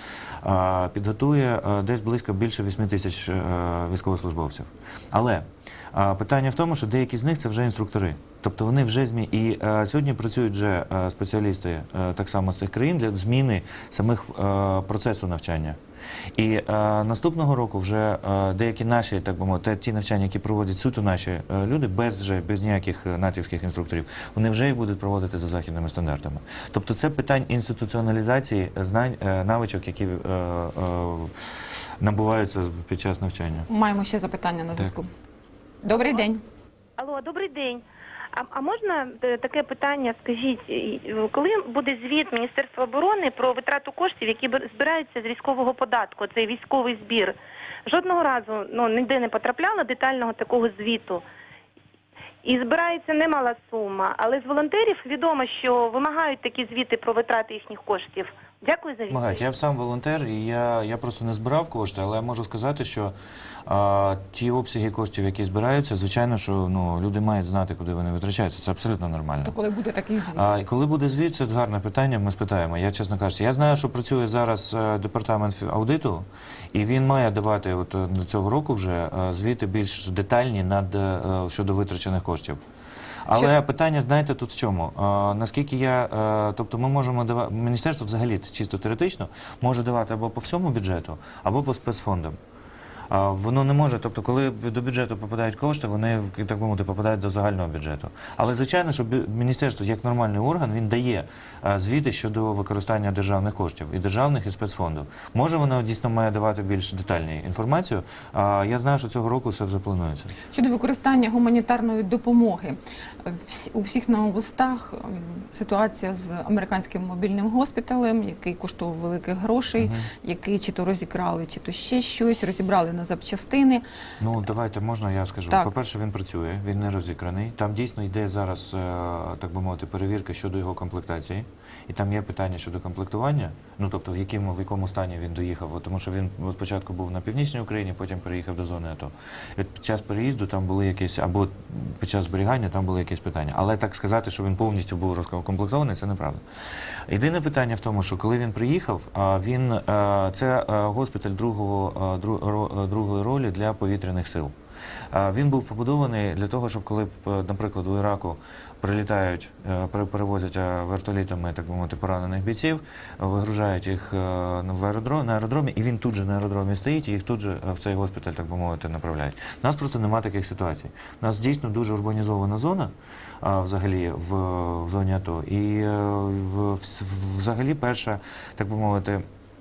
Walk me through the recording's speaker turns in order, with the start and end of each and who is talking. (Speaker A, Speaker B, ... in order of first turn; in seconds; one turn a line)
Speaker A: 0.4-15.8
Speaker A: 16.4-33.7
Speaker B: 33.7-35.1
Speaker B: 35.8-36.4
Speaker C: 37.0-51.2
Speaker C: 52.4-59.3
Speaker A: 59.1-63.1
Speaker A: 63.7-69.5
Speaker B: 69.4-70.5
Speaker A: 70.3-82.6
Speaker A: 83.3-92.4
Speaker A: 93.1-110.3
Speaker B: 110.5-123.8
Speaker A: 119.8-120.1
Speaker A: 124.2-146.4
Speaker A: 147.1-154.5
Speaker A: 155.1-179.2